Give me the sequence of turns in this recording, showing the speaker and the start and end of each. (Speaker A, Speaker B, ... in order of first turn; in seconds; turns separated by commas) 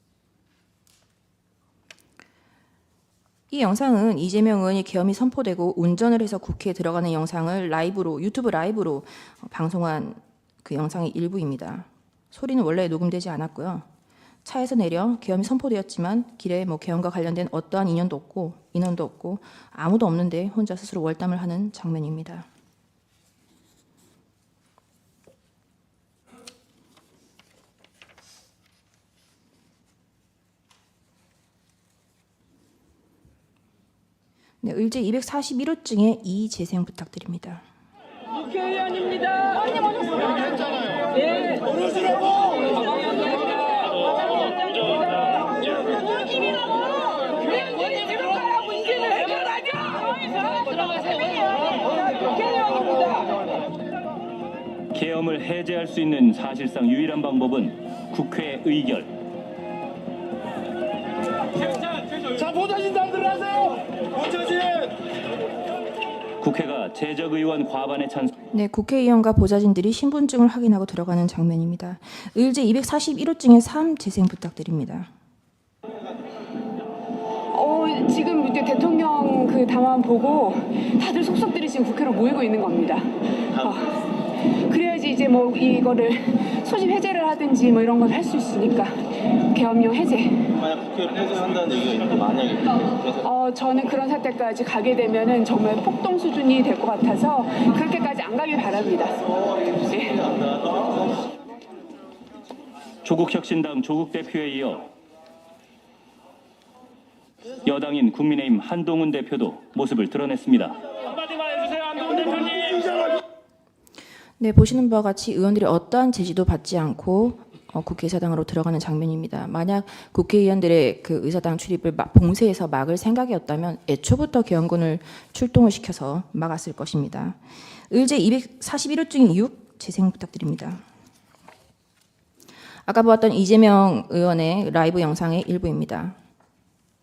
Speaker A: 3.5-13.9, Speaker A: 14.4-22.5, Speaker A: 34.6-37.6, Speaker B: 45.9-46.6, Speaker B: 47.1-51.4, Speaker B: 52.2-52.9, Speaker C: 54.9-59.2, Speaker D: 62.4-64.9, Speaker C: 66.4-68.3, Speaker A: 68.5-75.1, Speaker B: 77.5-90.8, Speaker E: 90.8-92.8, Speaker B: 93.1-100.7, Speaker C: 103.0-104.9, Speaker C: 107.7-112.9, Speaker A: 114.4-127.4, Speaker A: 127.9-130.8, Speaker A: 132.9-136.2